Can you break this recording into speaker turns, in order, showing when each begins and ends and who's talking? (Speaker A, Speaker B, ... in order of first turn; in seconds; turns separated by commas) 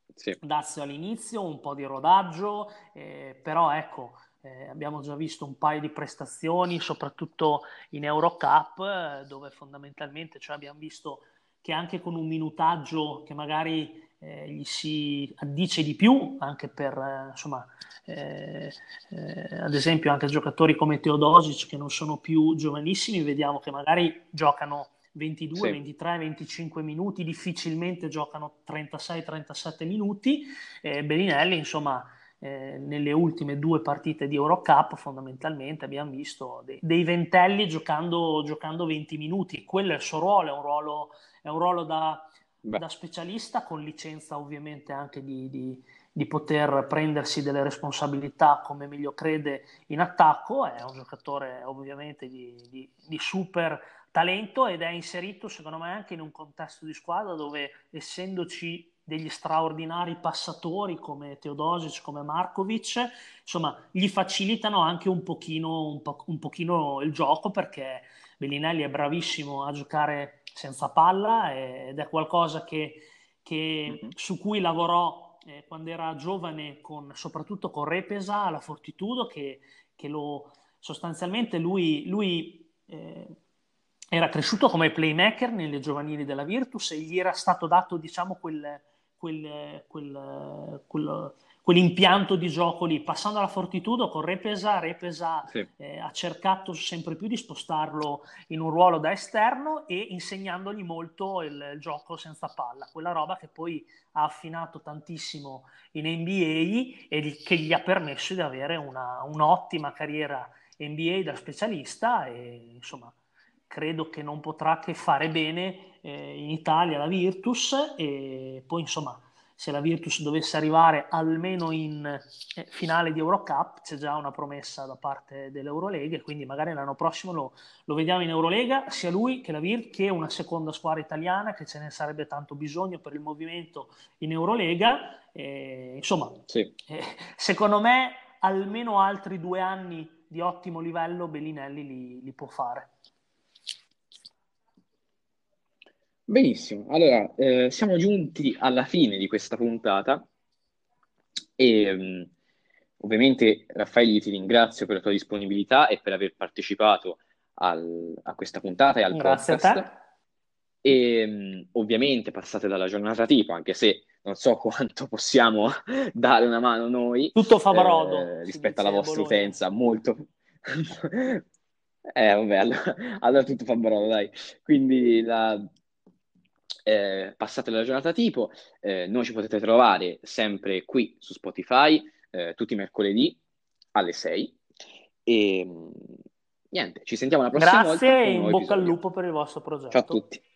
Speaker A: 0.4-83.3, Speaker A: 84.1-113.1, Speaker A: 113.7-142.9, Speaker B: 146.3-150.3, Speaker B: 151.6-152.3, Speaker B: 153.0-159.9, Speaker A: 159.1-160.0, Speaker B: 160.8-171.4, Speaker A: 167.3-169.6, Speaker B: 172.1-175.7, Speaker B: 176.8-183.4, Speaker B: 183.9-184.6, Speaker B: 185.2-186.1, Speaker B: 186.7-188.9, Speaker A: 187.5-190.2, Speaker B: 189.9-190.4